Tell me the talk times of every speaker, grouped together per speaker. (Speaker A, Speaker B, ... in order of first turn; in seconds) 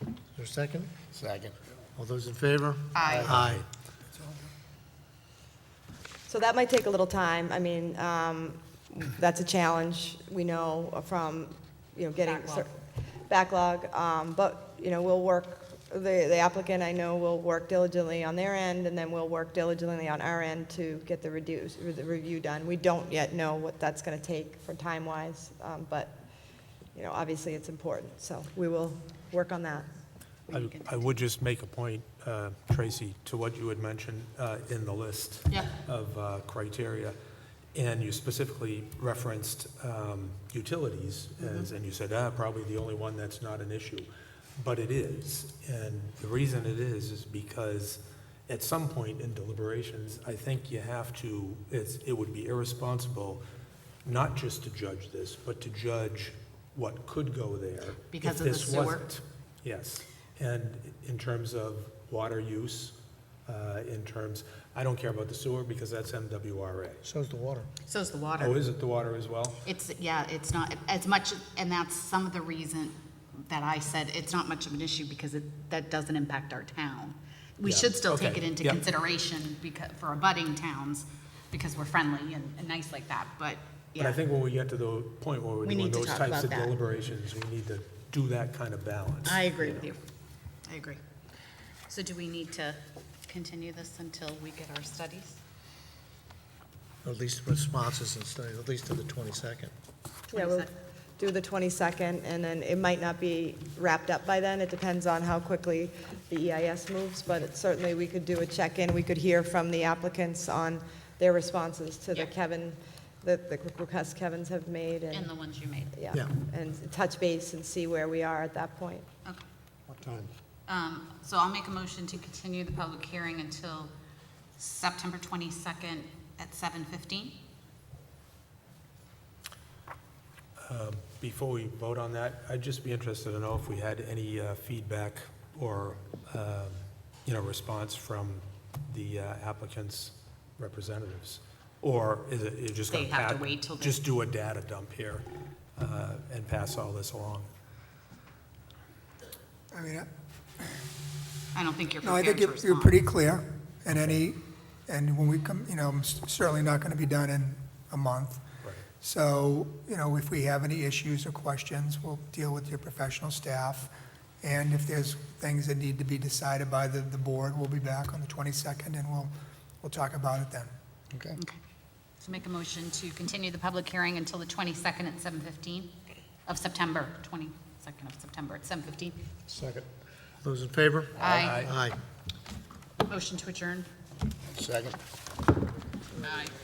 Speaker A: 0.3-3.6, 67.0-67.7, 97.0-99.7, 119.9-120.3, 179.5-179.9, 180.4-182.0, 184.6-185.0
Speaker B: 2.9-3.4, 12.2-12.7, 30.5-31.2, 58.1-59.1, 67.9-68.6, 69.6-84.2, 85.6-86.7, 89.2-90.0, 90.7-91.0, 91.9-95.4, 100.3-100.7, 115.1-115.9, 120.7-123.9, 124.6-127.4, 142.9-144.0, 151.5-153.0, 172.2-175.9, 176.5-179.2, 181.2-181.7, 183.1-183.9, 186.2-186.5
Speaker C: 3.1-3.6, 30.5-37.2, 37.7-53.4, 54.0-63.0, 63.5-67.0, 68.4-69.6, 77.6-78.8, 84.0-89.9, 130.6-147.5, 181.2-181.8
Speaker D: 6.3-26.2, 26.9-29.9, 100.3-115.3, 116.0-119.1
Speaker E: 149.7-150.1, 152.0-158.4, 159.0-170.7